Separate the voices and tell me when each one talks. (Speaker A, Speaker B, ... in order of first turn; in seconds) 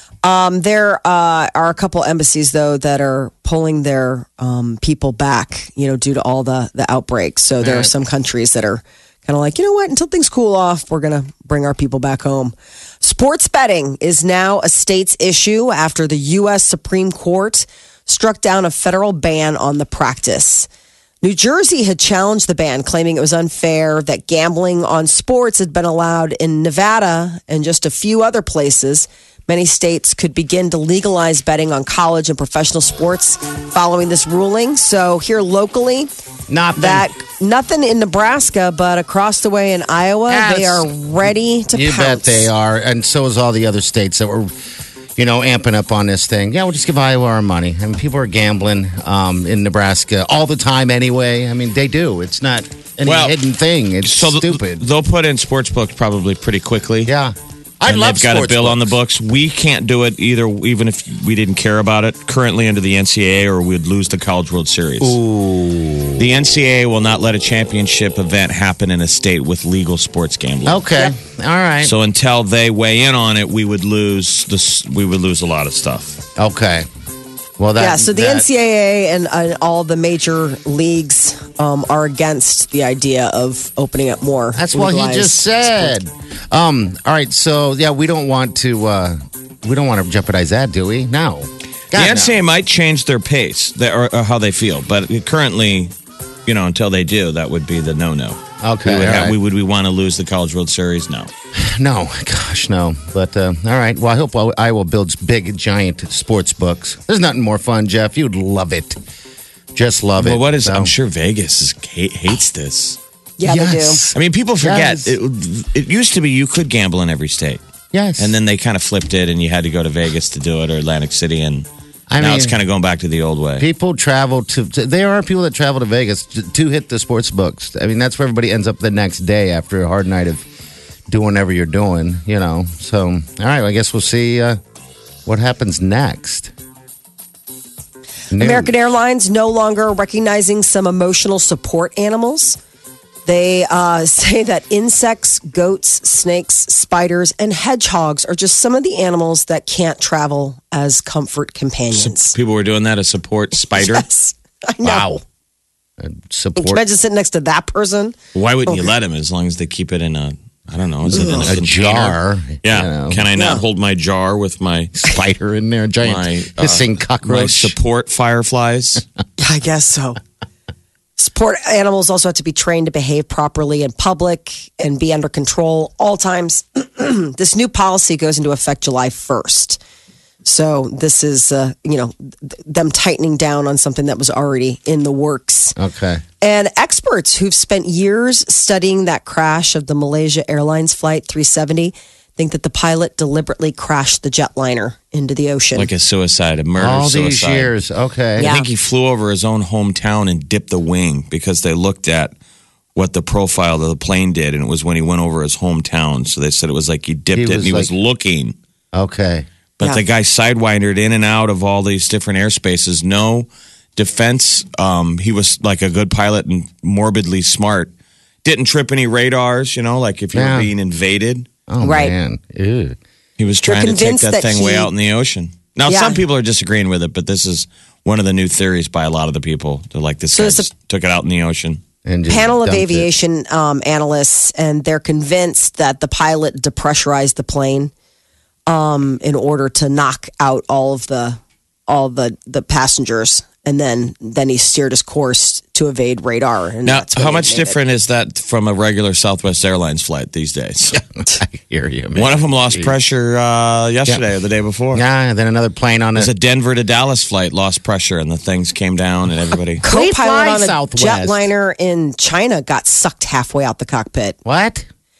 Speaker A: 0.2-20.7, 21.2-36.1, 36.8-42.5, 77.8-85.9, 113.4-114.0, 138.4-142.6, 143.2-152.3, 153.8-155.1, 156.6-158.2, 161.1-161.5, 163.3-163.6, 169.4-170.2, 171.2-179.8, 180.4-185.8, 186.4-195.9, 198.4-198.7, 221.8-222.1, 223.6-224.9, 225.9-226.2, 230.3-230.7, 232.3-237.9, 238.7-247.8, 259.8-264.4
Speaker B: 7.6-7.9, 36.5-37.1, 40.3-40.9, 41.7-44.5, 45.1-54.8, 57.0-58.9, 65.0-66.2, 70.7-71.9, 76.4-76.9, 77.6-78.5, 84.5-92.4, 98.6-99.3, 101.6-109.0, 109.7-110.9, 113.4-115.1, 117.9-118.3, 122.1-122.5, 123.6-130.5, 131.1-134.6, 135.2-136.5, 138.3-138.7, 154.8-155.2, 156.0-156.8, 161.1-163.3, 165.0-167.8, 185.8-186.2, 196.8-198.5, 207.3-207.9, 208.9-209.4, 220.3-220.7, 221.7-223.0, 232.0-233.1, 250.9-252.9, 254.9-256.3, 259.8-261.5, 264.4-264.9
Speaker C: 53.0-53.4, 54.0-57.1, 57.9-65.2, 66.2-70.9, 71.8-76.2, 91.9-95.9, 96.5-101.3, 110.2-113.0, 114.1-117.6, 118.2-121.7, 122.2-123.7, 151.9-154.1, 158.3-165.0, 166.0-169.0, 195.7-197.7, 198.4-202.3, 202.9-208.5, 209.8-217.9, 218.4-221.5, 223.4-231.8, 246.8-251.0, 252.1-255.0, 256.1-259.8